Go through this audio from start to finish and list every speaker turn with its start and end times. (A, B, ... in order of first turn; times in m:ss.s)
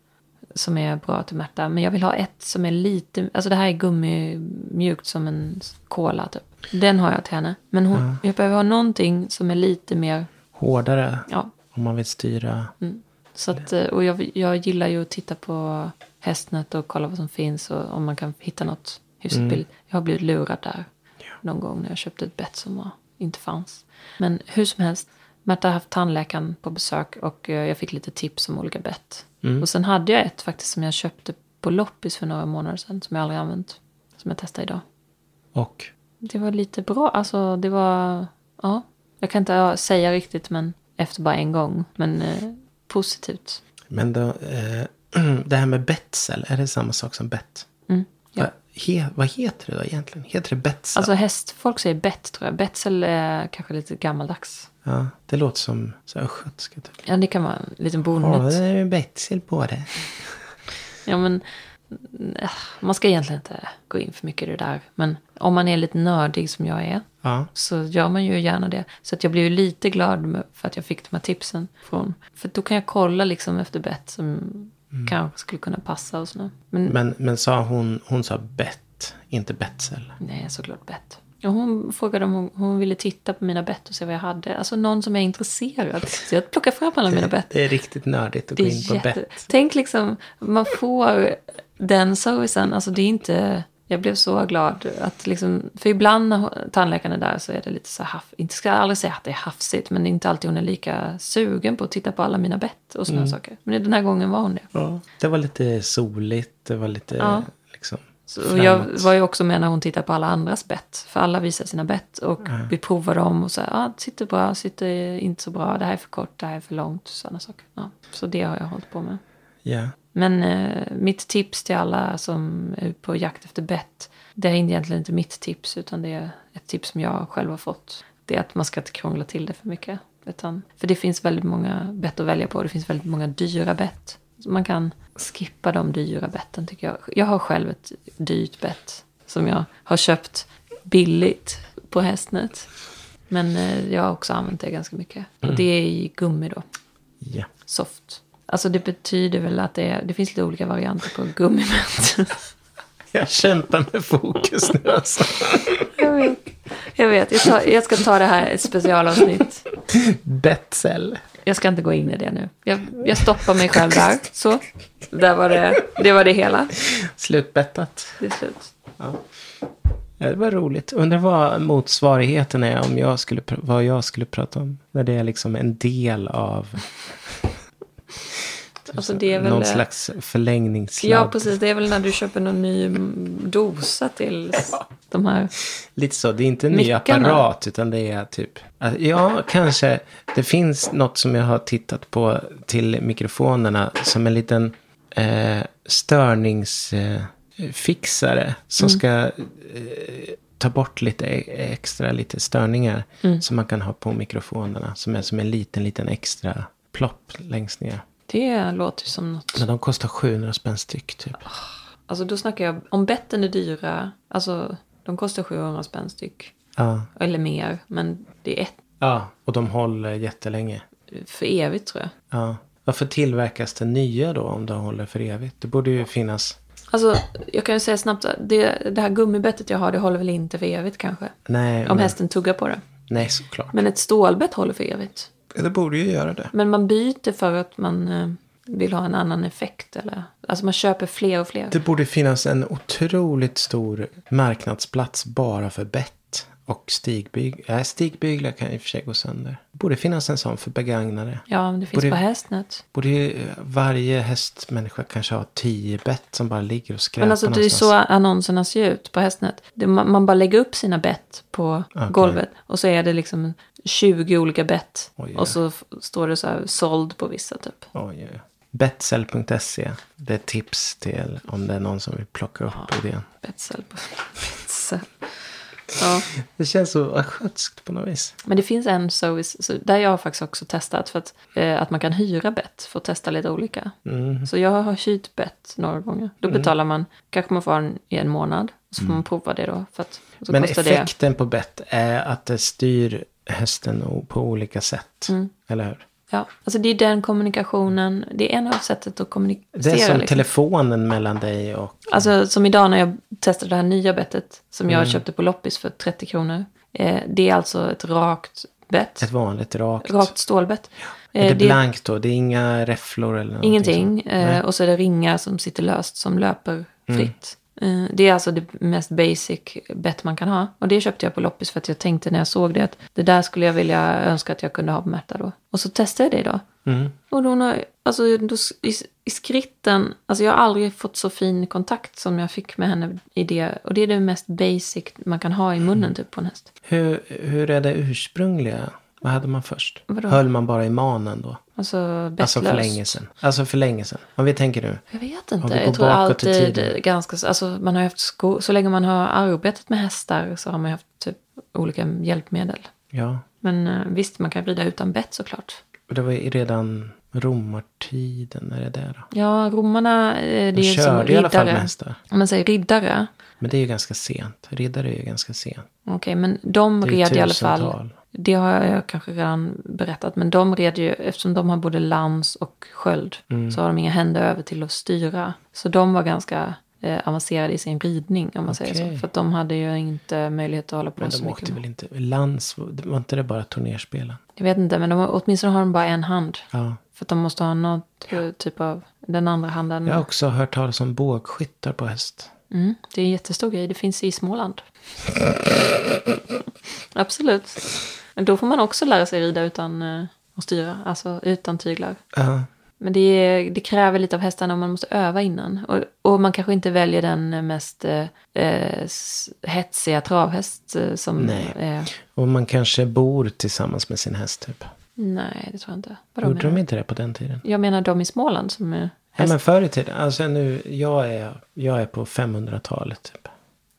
0:00.6-0:10.3 A
0:07.9-0:08.2 B
0:10.5-0:12.7 B
0:11.3-0:11.5 A
0:12.8-0:20.9 A
0:19.3-0:19.6 B
0:21.4-0:34.8 A
0:35.5-0:35.9 B
0:36.2-0:43.6 A
0:43.9-0:47.7 B
0:47.9-0:48.5 A
0:48.4-0:51.1 B
0:51.0-0:54.7 A
0:54.8-0:57.0 B
0:57.0-0:58.6 A
0:58.2-1:00.4 B
1:01.0-1:17.0 A
1:07.2-1:07.5 B
1:16.9-1:20.2 B
1:20.2-1:27.5 A
1:27.1-1:29.4 B
1:28.6-1:44.7 A
1:43.1-1:43.4 B
1:44.7-1:49.1 B
1:47.2-1:47.5 A
1:48.3-1:59.2 A
1:52.4-1:52.7 B
1:59.6-1:59.9 B
2:00.1-2:22.7 A
2:23.3-2:26.6 A
2:27.2-2:27.5 B
2:27.6-2:32.4 A
2:33.1-2:35.9 B
2:36.0-2:39.7 A
2:39.9-2:41.2 B
2:41.4-2:46.8 A
2:43.6-2:44.0 B
2:46.8-2:48.2 B
2:48.2-2:48.7 A
2:49.0-2:49.2 B
2:50.2-2:57.5 B
2:58.9-3:01.5 B
2:58.9-2:59.8 A
3:01.0-3:05.5 A
3:05.7-3:28.0 B
3:06.7-3:07.5 A
3:28.3-3:29.6 A
3:29.6-3:31.4 B
3:31.4-3:36.5 A
3:36.8-3:37.1 B
3:37.2-3:38.8 A
3:39.0-3:40.9 B
3:41.1-3:42.1 A
3:42.3-3:46.6 B
3:46.9-3:52.8 A
3:51.5-3:52.2 B
3:53.1-3:53.8 B
3:53.7-3:55.3 A
3:55.5-3:56.5 B
3:56.5-4:01.8 A
4:01.7-4:12.2 B
4:11.5-4:12.8 A
4:12.9-4:17.9 B
4:17.2-4:27.9 A
4:22.0-4:22.4 B
4:25.2-4:25.6 B
4:27.9-4:33.3 B
4:32.7-4:36.3 A
4:36.3-4:38.4 B
4:38.4-4:51.1 A
4:44.0-4:44.5 B
4:50.5-4:56.1 B
4:56.3-5:00.5 A
4:59.8-5:02.3 B
5:02.1-5:09.3 A
5:04.9-5:05.2 B
5:09.2-5:10.3 B
5:10.0-5:11.8 A
5:11.4-5:14.6 B
5:13.6-5:26.7 A
5:26.8-5:27.2 B
5:27.3-5:36.7 A
5:36.9-5:41.6 B
5:40.1-5:40.4 A
5:41.8-5:43.2 A
5:42.4-5:45.0 B
5:45.1-5:52.9 A
5:45.6-5:47.0 B
5:53.1-5:53.4 B
5:53.6-5:55.8 A
5:56.1-5:59.3 B
5:59.3-6:03.3 A
6:00.8-6:02.2 B
6:03.6-6:05.9 B
6:06.1-6:21.8 A
6:07.0-6:08.1 B
6:13.5-6:13.8 B
6:18.7-6:19.2 B
6:21.2-6:24.4 B
6:24.6-6:30.2 A
6:26.7-6:27.0 B
6:30.1-6:32.5 B
6:32.7-6:34.8 A
6:37.1-6:42.2 A
6:42.3-6:42.7 B
6:43.0-6:52.1 A
6:51.4-6:54.9 B
6:55.2-6:56.8 A
6:56.4-6:57.6 B
6:57.6-6:59.6 A
6:59.4-7:03.5 B